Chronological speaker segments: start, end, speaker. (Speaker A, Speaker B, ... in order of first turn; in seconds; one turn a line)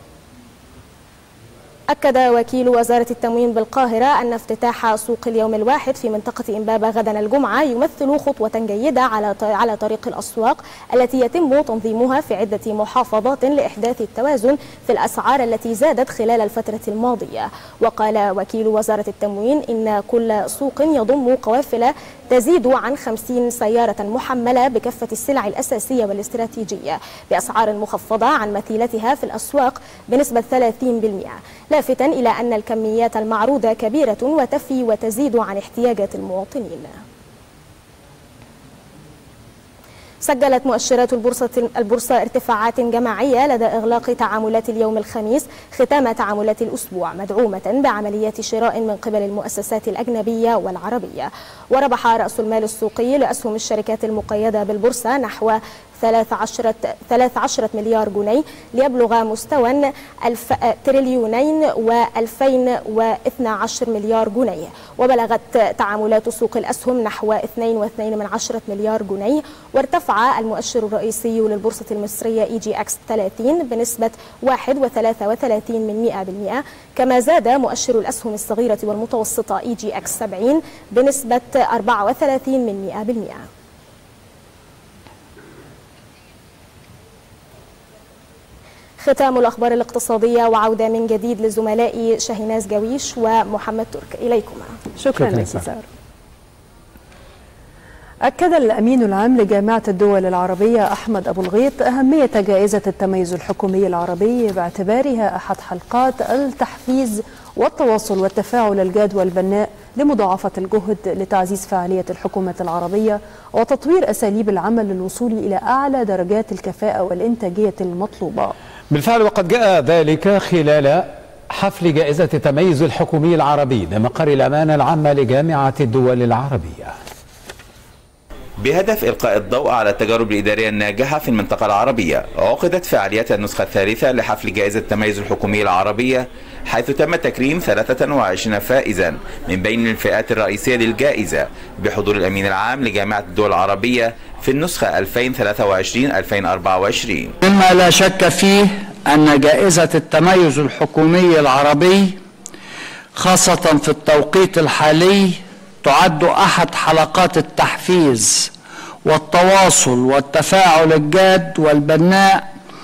Speaker A: 1.9-37.0
Speaker A: 40.2-83.5
Speaker A: 89.0-94.8
Speaker B: 95.0-95.8
Speaker C: 95.1-95.7
Speaker B: 98.2-118.5
Speaker C: 118.9-127.0
Speaker D: 128.6-147.3
Speaker E: 147.4-152.2
Speaker E: 153.2-158.5
Speaker E: 159.1-162.5